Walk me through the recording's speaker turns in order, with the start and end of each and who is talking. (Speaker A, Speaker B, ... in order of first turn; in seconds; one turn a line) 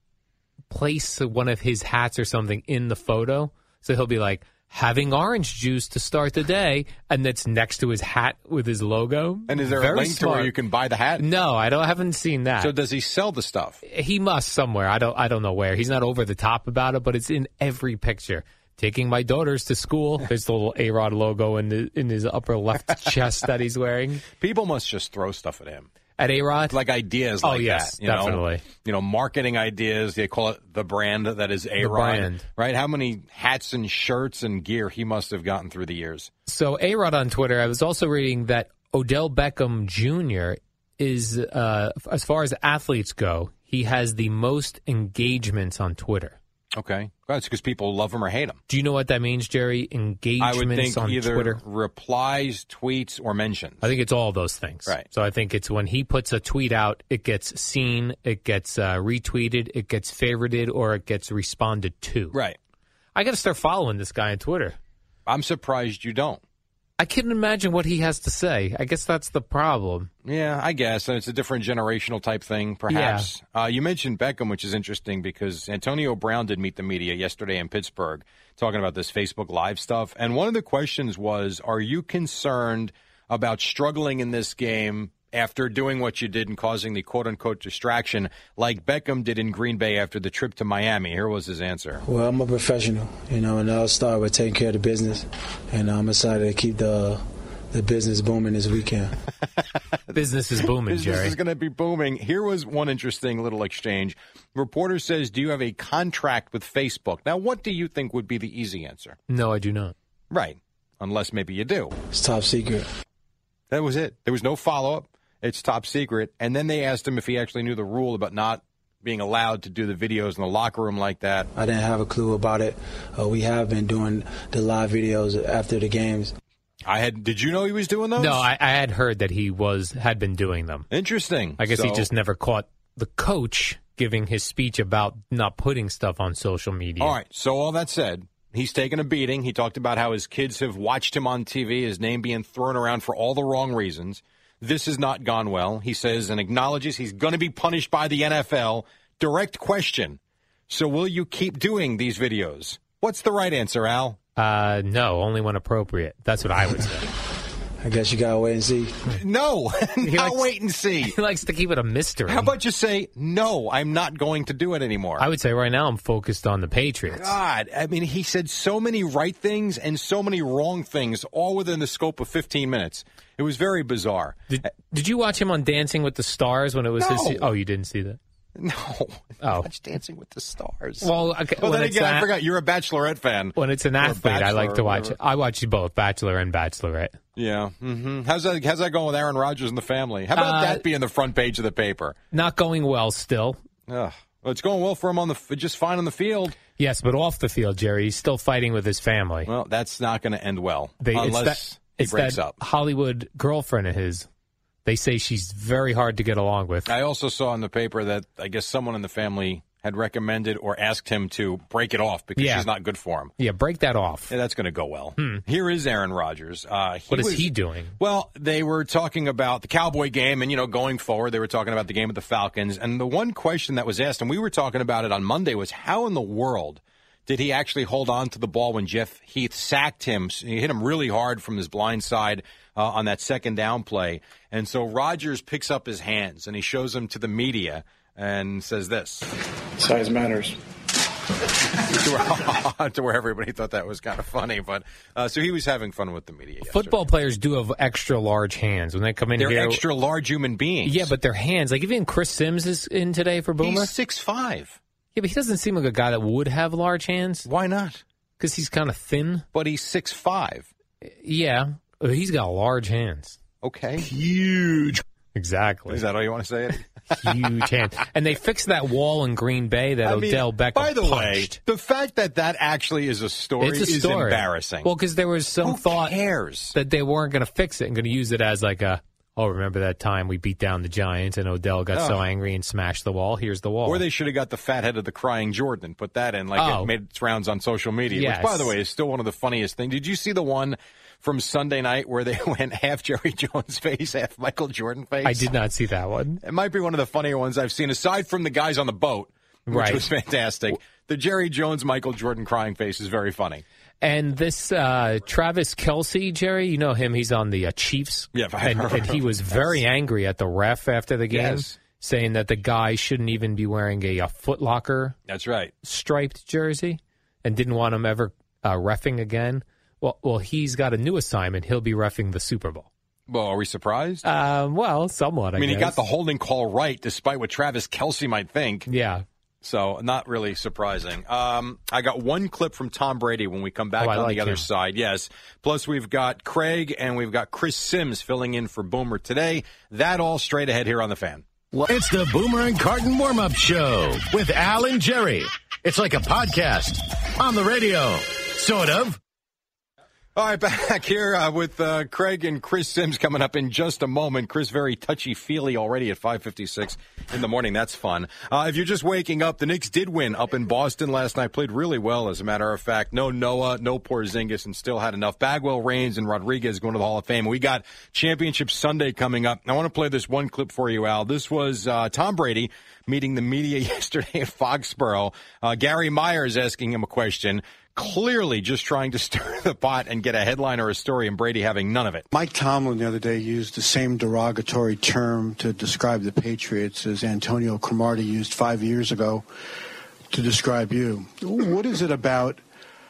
Speaker A: 0.7-10.5
Speaker B: 9.5-11.2
Speaker A: 11.2-12.7
Speaker B: 12.6-13.8
Speaker A: 13.9-24.2
Speaker B: 24.4-25.9
Speaker A: 26.2-26.8
Speaker B: 26.7-36.3
Speaker A: 27.4-28.6
Speaker A: 31.8-32.4
Speaker A: 36.5-46.4
Speaker B: 46.8-48.6
Speaker A: 48.7-51.6
Speaker B: 50.4-53.9
Speaker A: 53.8-62.4
Speaker A: 63.1-64.8
Speaker B: 65.3-66.4
Speaker A: 67.0-70.1
Speaker B: 70.2-92.0
Speaker A: 72.9-73.3
Speaker C: 92.0-99.1
Speaker A: 100.1-101.3
Speaker B: 100.9-109.2
Speaker A: 109.3-109.9
Speaker B: 110.3-111.9
Speaker C: 112.1-112.9
Speaker B: 113.7-121.5
Speaker C: 121.5-126.3
Speaker B: 126.9-128.5
Speaker A: 128.2-130.9
Speaker B: 130.9-132.1
Speaker A: 131.6-137.2
Speaker B: 137.0-150.2
Speaker B: 150.7-154.2
Speaker A: 154.4-157.1
Speaker C: 157.8-159.1
Speaker B: 159.1-161.2
Speaker A: 160.0-160.4
Speaker A: 161.0-162.5
Speaker B: 162.3-165.3
Speaker A: 165.2-167.3
Speaker B: 167.1-174.4
Speaker A: 174.5-178.2
Speaker B: 177.0-177.5
Speaker B: 178.6-185.2
Speaker A: 179.4-179.7
Speaker A: 181.0-182.3
Speaker A: 183.6-187.2
Speaker B: 187.4-192.2
Speaker A: 190.3-190.8
Speaker A: 192.3-193.6
Speaker B: 193.9-196.6
Speaker A: 196.8-199.5
Speaker B: 199.5-202.6
Speaker A: 201.0-204.3
Speaker A: 204.9-206.9
Speaker B: 206.9-213.3
Speaker A: 212.4-212.7
Speaker A: 213.4-214.3
Speaker B: 214.3-239.3
Speaker A: 215.2-215.4
Speaker A: 217.1-218.0
Speaker B: 241.8-247.0
Speaker A: 246.7-249.8
Speaker B: 249.4-251.1
Speaker A: 250.8-253.9
Speaker B: 253.6-254.8
Speaker A: 255.2-257.5
Speaker B: 257.5-258.0
Speaker A: 258.4-259.4
Speaker B: 259.5-260.7
Speaker A: 261.0-263.4
Speaker B: 263.6-264.1
Speaker D: 264.1-265.0
Speaker A: 265.4-266.0
Speaker B: 265.9-267.6
Speaker A: 267.2-271.6
Speaker B: 270.0-274.9
Speaker A: 273.6-276.2
Speaker B: 275.6-276.8
Speaker A: 276.7-284.0
Speaker B: 281.9-282.2
Speaker B: 283.9-295.5
Speaker A: 286.6-286.9
Speaker A: 288.1-288.7
Speaker A: 295.2-296.4
Speaker B: 296.4-303.6
Speaker A: 299.7-300.1
Speaker A: 304.0-315.1
Speaker B: 308.3-309.8
Speaker B: 311.3-311.8
Speaker B: 315.3-315.7
Speaker A: 315.8-322.9
Speaker B: 323.3-324.2
Speaker A: 324.2-326.0
Speaker B: 325.6-328.9
Speaker A: 328.9-329.2
Speaker B: 329.6-341.4
Speaker A: 334.0-334.7
Speaker D: 341.8-349.2
Speaker B: 350.4-382.2
Speaker E: 382.3-389.5
Speaker E: 390.3-392.6